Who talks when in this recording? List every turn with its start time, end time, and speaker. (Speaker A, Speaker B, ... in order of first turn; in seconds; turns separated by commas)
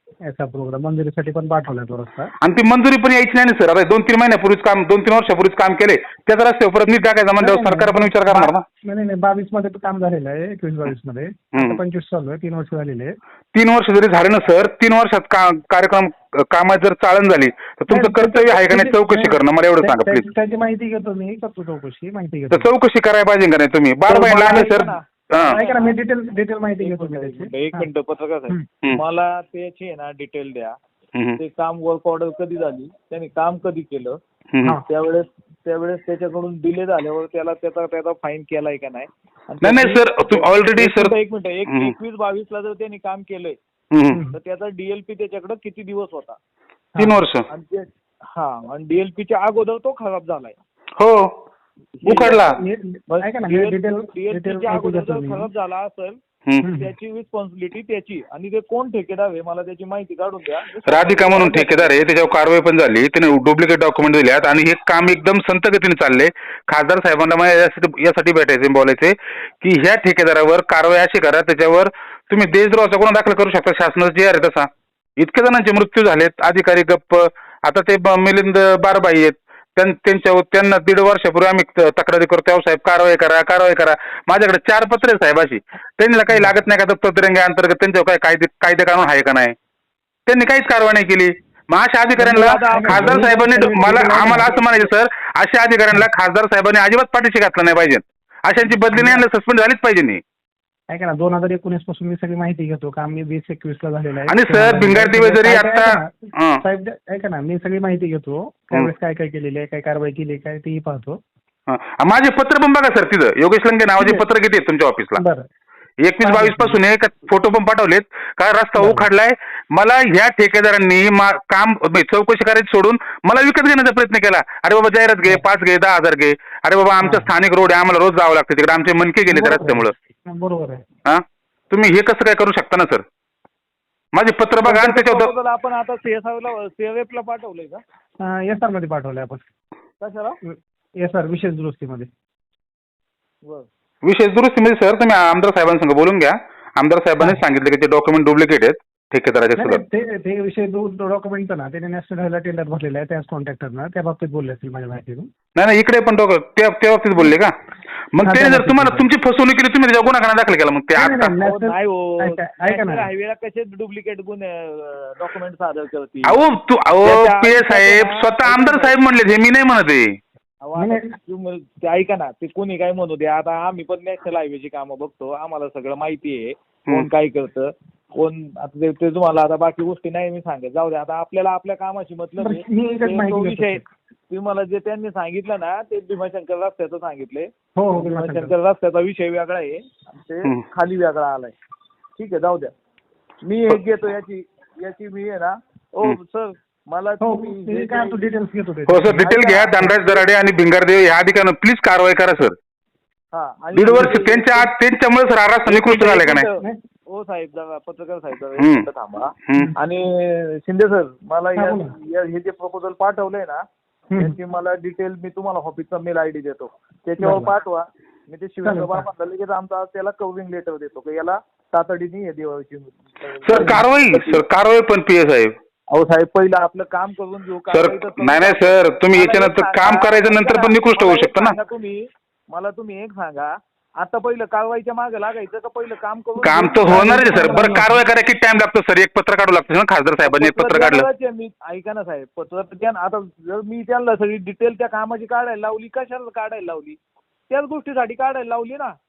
Speaker A: 0.2-2.3, Speaker B: 2.4-8.6, Speaker A: 7.4-13.1, Speaker B: 11.5-11.8, Speaker B: 13.5-20.2, Speaker A: 17.9-22.7, Speaker B: 22.5-25.6, Speaker C: 24.1-26.0, Speaker A: 24.1-27.9, Speaker C: 26.8-30.8, Speaker C: 31.4-34.2, Speaker B: 34.5-34.8, Speaker C: 34.9-43.6, Speaker B: 39.6-41.1, Speaker B: 41.7-41.9, Speaker B: 43.9-44.2, Speaker A: 44.1-44.4, Speaker C: 44.3-46.4, Speaker A: 46.9-47.2, Speaker B: 47.0-47.4, Speaker C: 47.5-50.6, Speaker B: 51.0-51.3, Speaker C: 52.0-52.5, Speaker B: 52.1-52.6, Speaker A: 52.1-55.5, Speaker C: 53.1-56.2, Speaker A: 56.6-56.9, Speaker C: 56.8-62.0, Speaker B: 60.9-89.5, Speaker A: 86.3-86.6, Speaker B: 90.2-100.2, Speaker C: 92.2-94.9, Speaker A: 92.7-94.5, Speaker A: 98.7-99.2, Speaker A: 100.9-111.2, Speaker B: 104.3-106.6, Speaker B: 111.7-115.2, Speaker A: 114.0-114.2, Speaker A: 115.2-115.4, Speaker B: 116.0-129.9, Speaker A: 116.2-116.8, Speaker A: 118.8-119.1, Speaker A: 127.0-127.3, Speaker A: 129.2-130.8, Speaker B: 131.1-133.0, Speaker B: 134.1-135.3, Speaker C: 134.6-137.8, Speaker A: 138.2-139.4, Speaker C: 140.0-140.4, Speaker A: 140.4-142.1, Speaker B: 144.0-149.8, Speaker A: 149.6-155.3, Speaker B: 155.6-157.5, Speaker B: 158.1-161.4, Speaker A: 158.2-159.1, Speaker A: 160.9-163.1, Speaker C: 161.4-166.4, Speaker B: 166.2-170.2, Speaker C: 167.0-168.9, Speaker C: 170.6-191.5, Speaker A: 170.8-171.1, Speaker A: 182.4-183.9, Speaker A: 187.8-188.5, Speaker C: 192.2-192.7, Speaker C: 193.4-198.3, Speaker A: 197.2-199.9, Speaker B: 198.9-202.5, Speaker C: 199.2-199.8, Speaker C: 203.3-204.7, Speaker B: 203.7-206.5, Speaker C: 205.7-213.6, Speaker B: 208.6-208.9, Speaker A: 211.6-211.9, Speaker C: 214.2-224.4, Speaker A: 217.2-217.5, Speaker A: 218.6-219.1, Speaker B: 223.4-225.5, Speaker C: 225.9-237.8, Speaker B: 227.7-231.6, Speaker B: 236.4-241.1, Speaker A: 236.9-238.0, Speaker C: 240.2-248.9